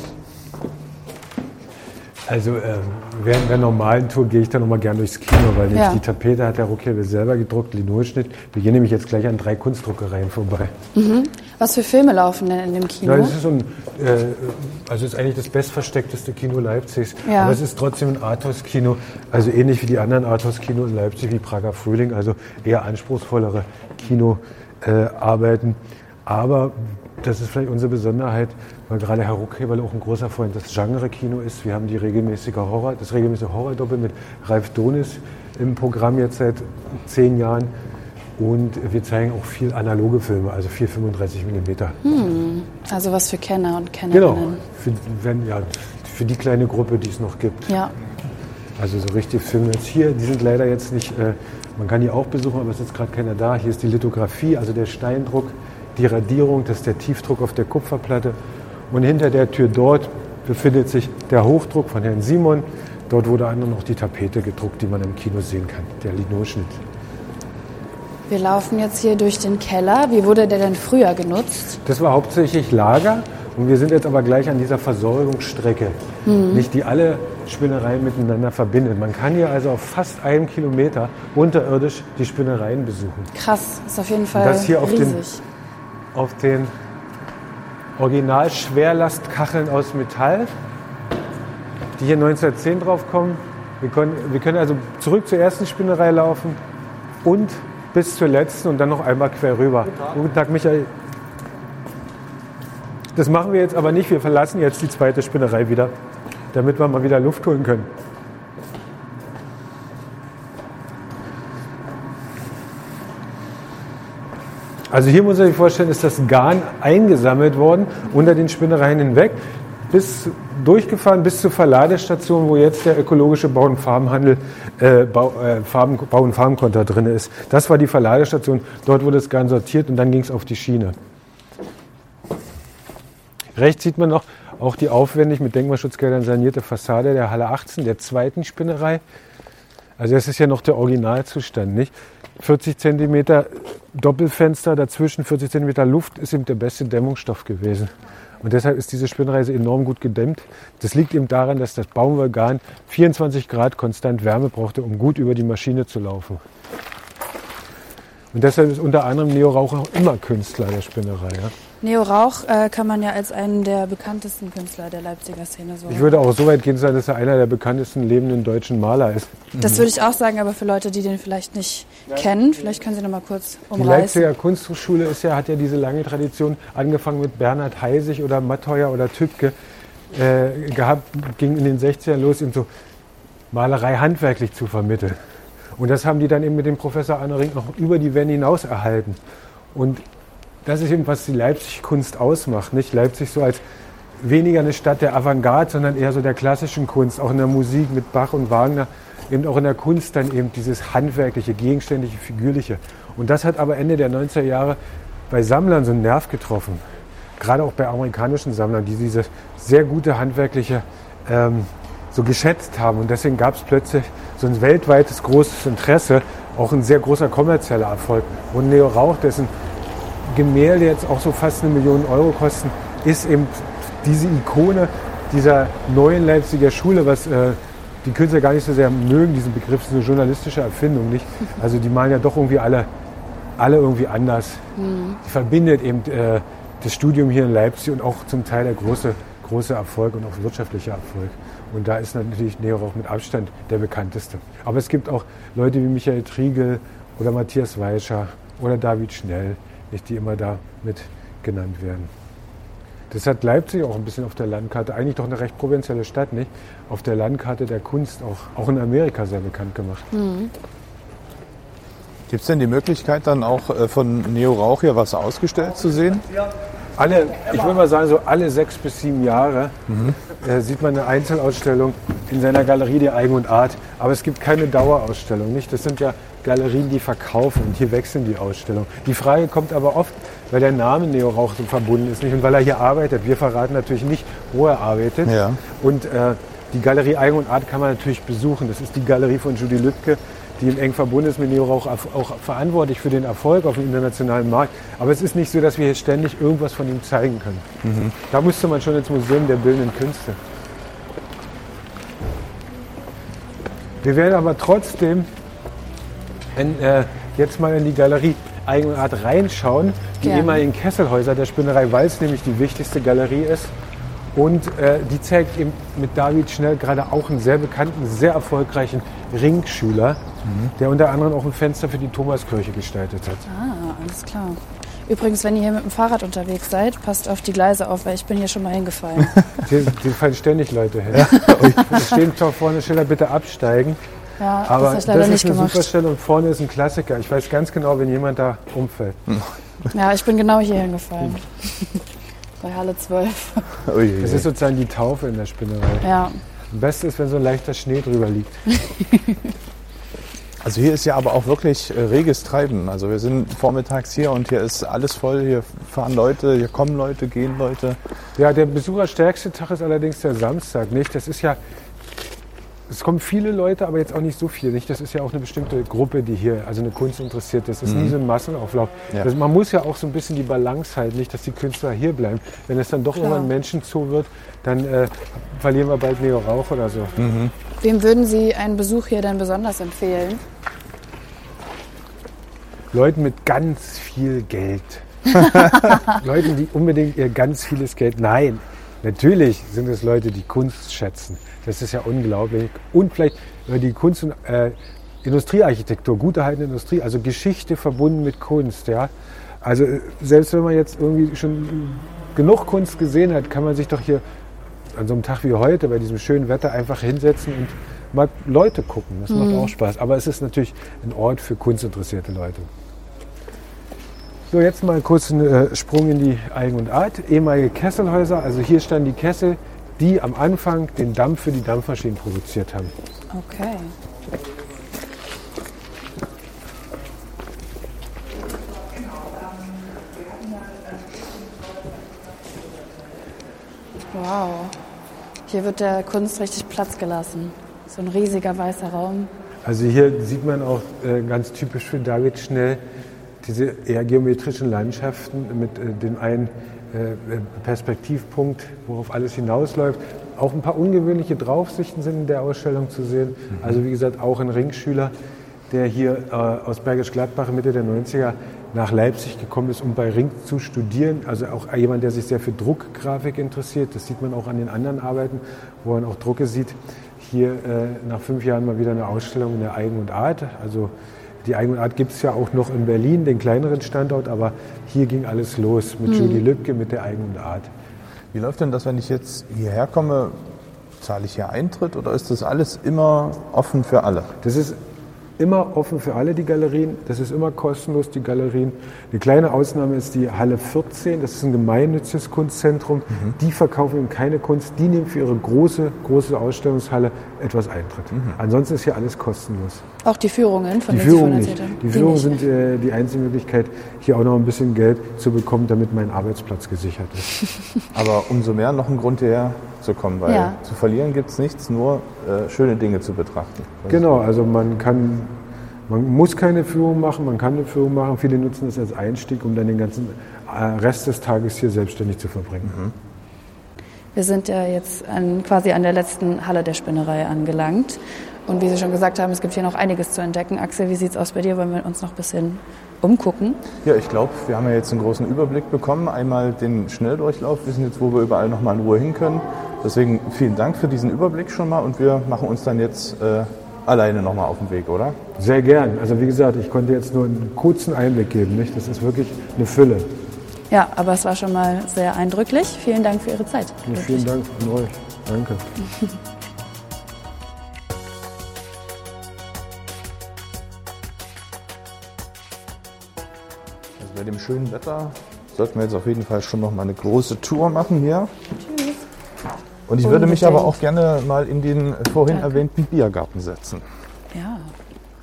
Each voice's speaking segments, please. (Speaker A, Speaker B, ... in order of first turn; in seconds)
Speaker A: 2.3-10.7, 13.0-37.7, 38.4-42.0, 44.1-47.8, 48.8-58.4, 58.9-66.8, 71.8-83.3, 84.3-85.2, 86.1-86.7, 88.0-90.5, 92.0-96.6, 97.2-100.9, 103.1-105.9, 106.5-107.9, 114.9-131.0, 133.6-139.0, 140.0-156.4, 158.3-161.5, 165.9-169.5, 173.8-179.5, 180.1-182.7, 183.5-185.2, 185.8-189.2, 189.7-190.1, 190.6-193.6, 194.2-206.8, 207.4-219.5, 220.2-232.9, 233.6-234.6, 235.2-252.1, 253.1-260.1, 267.0-297.7, 298.2-300.4, 304.0-305.3, 306.6-313.7, 314.3-320.2, 320.8-323.4, 329.6-334.0, 334.6-339.3, 344.2-346.1, 346.7-348.7, 358.4-361.6, 362.9-377.2, 382.9-404.2, 404.9-412.7, 414.5-422.9, 439.6-442.8, 443.4-455.1, 455.7-470.9, 471.4-477.7, 484.4-484.8, 485.4-499.8, 500.9-507.4, 513.9-522.8, 545.4-550.1, 553.8-555.7
Speaker B: 5.7-6.0, 10.9-13.4, 17.3-17.6, 42.0-44.6, 47.7-47.9, 68.3-71.8, 76.2-76.7, 83.3-85.4, 161.8-166.2, 169.6-174.3, 234.8-235.2, 260.1-260.5, 310.2-310.6, 323.5-329.4, 331.3-331.8, 334.4-335.9, 339.9-342.0, 342.6-343.8, 346.0-346.4, 348.8-349.4, 373.2-373.5, 377.8-380.4, 409.3-409.7, 423.3-423.9, 434.1-434.8, 435.5-439.3, 476.1-476.4, 500.0-502.4, 510.3-510.6, 524.1-533.6, 550.7-554.3, 568.6-569.0, 570.0-570.8, 572.3-572.6, 574.3-574.7
Speaker C: 169.6-169.8, 262.3-266.3, 269.9-270.2, 285.2-285.6, 297.8-298.1, 320.5-320.7, 331.1-332.0, 343.9-344.5, 350.6-358.0, 367.9-368.2, 377.2-377.5, 478.3-484.3, 498.1-498.4, 507.9-514.0, 522.7-522.9, 533.8-545.2, 564.0-568.3, 569.9-573.9